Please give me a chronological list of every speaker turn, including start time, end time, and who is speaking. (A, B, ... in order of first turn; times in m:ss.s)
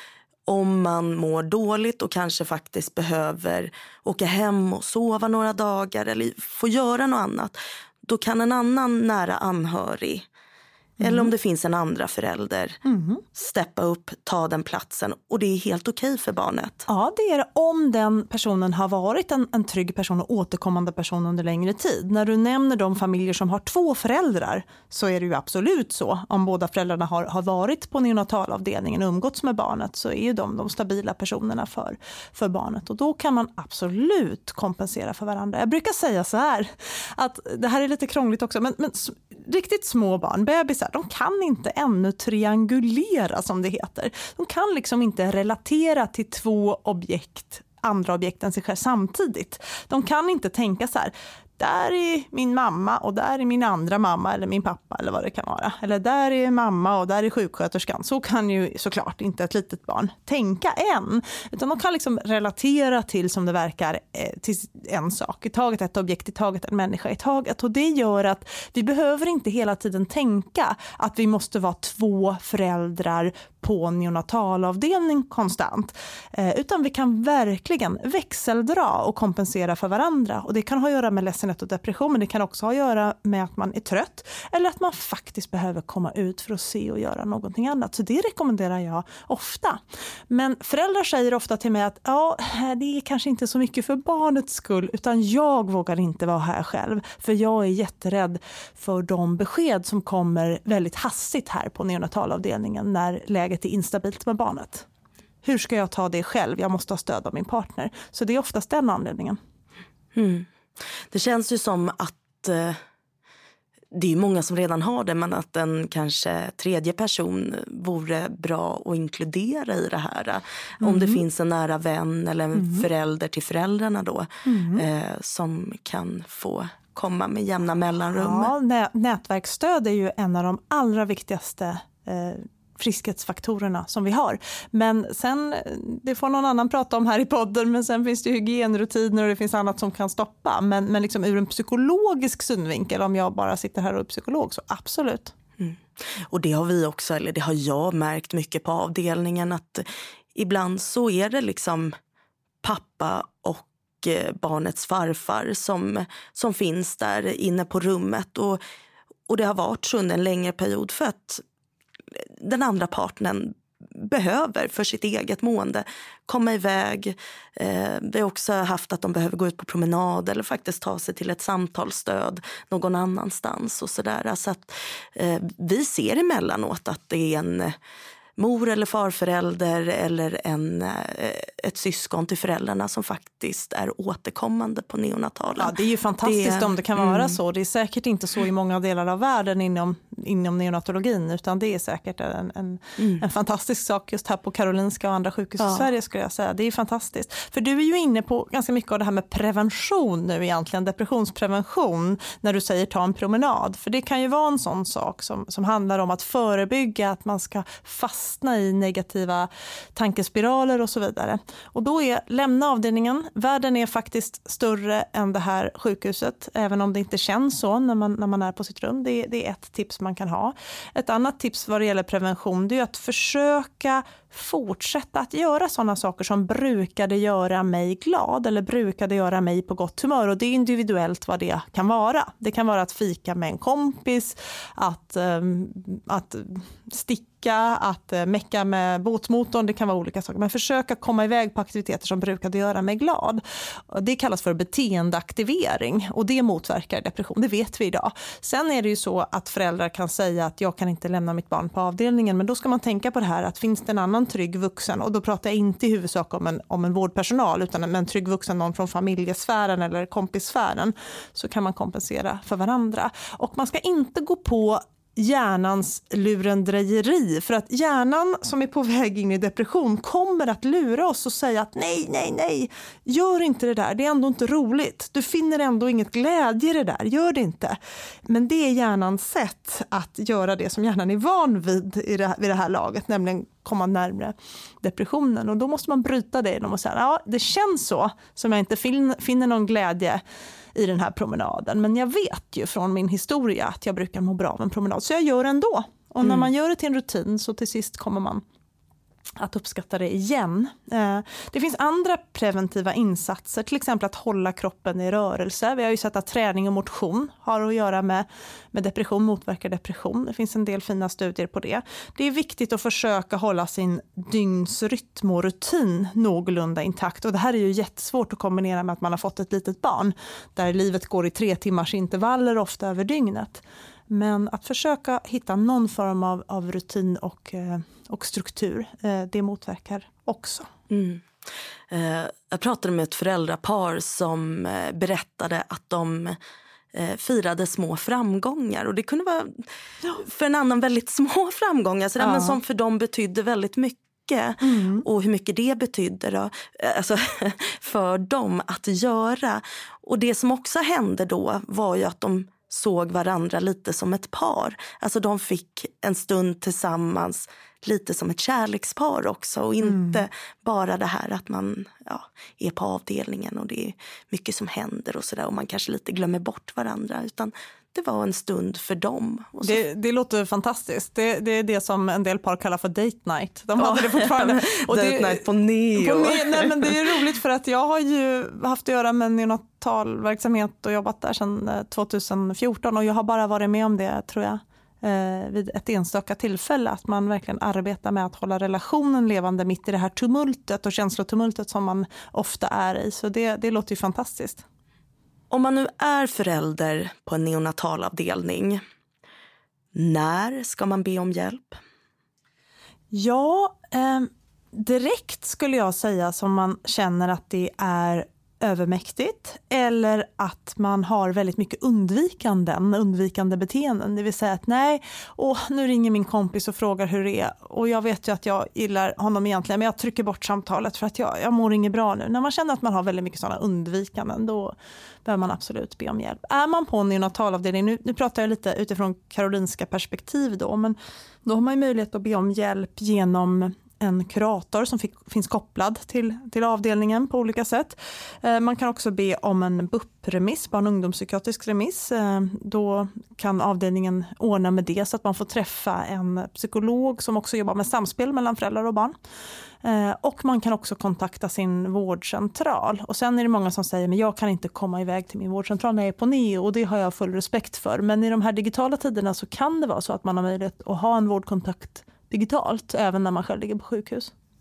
0:00.5-0:10.2 A
0:11.0-0:11.3 B
0:11.0-0:12.8 A
0:12.8-0:13.2 B
0:13.3-0:16.8 A
0:16.9-1:29.8 B
1:30.3-1:44.9 B
1:45.4-1:49.4 B
1:50.1-1:50.5 A
1:51.1-1:52.8 A
1:53.9-2:08.5 A
2:00.8-2:01.2 B
2:02.5-2:02.8 B
2:04.4-2:04.8 B
2:08.1-2:25.3 B
2:25.6-2:32.0 A
2:32.6-2:38.6 A
2:39.3-2:41.4 A
2:42.1-2:57.8 A
2:58.4-3:07.4 A
3:05.6-4:50.2 B
3:15.6-3:15.8 A
4:50.7-4:58.4 B
4:56.2-4:56.5 A
4:59.4-5:30.7 B
5:30.9-5:31.3 A
5:31.9-5:36.4 A
5:36.9-6:09.8 A
5:42.2-5:42.6 B
5:44.6-5:45.0 B
5:59.9-6:00.2 B
6:09.6-6:34.6 B
6:13.8-6:17.1 A
6:35.5-6:38.8 A
6:39.9-6:41.8 A
6:43.1-7:29.1 B
7:29.8-7:44.3 B